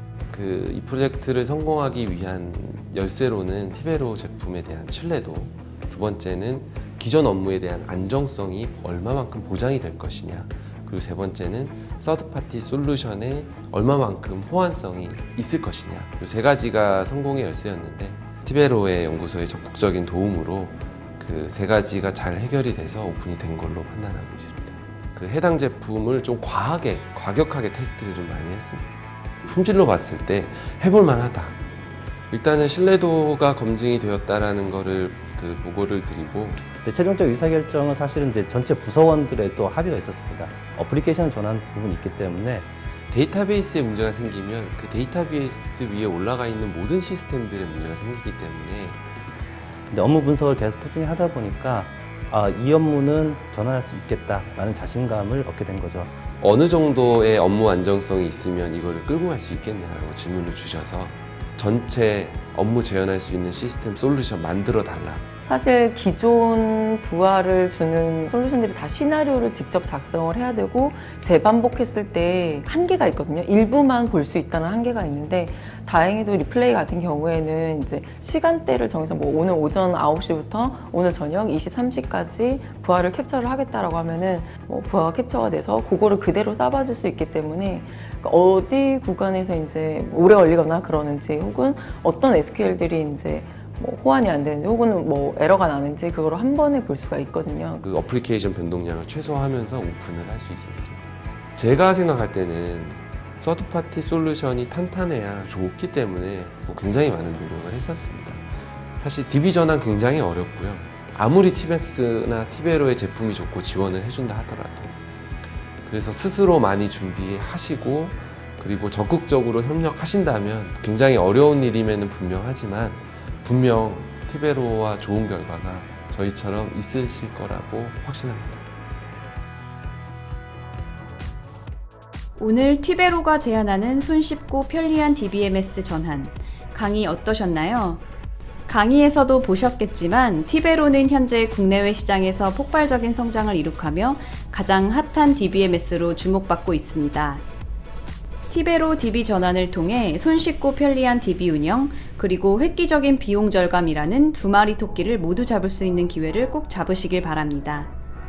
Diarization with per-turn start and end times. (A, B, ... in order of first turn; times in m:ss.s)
0:00.3-0:28.9 A
0:29.4-0:31.6 A
0:32.3-0:36.6 A
0:36.8-0:42.7 B
0:43.1-0:49.0 A
0:49.9-0:56.1 B
0:56.4-1:05.2 A
1:05.4-1:37.8 C
1:37.8-1:48.4 A
1:49.0-1:55.0 A
1:55.8-2:08.6 A
2:12.4-2:18.0 D
2:18.7-2:27.4 D
2:28.5-2:37.9 D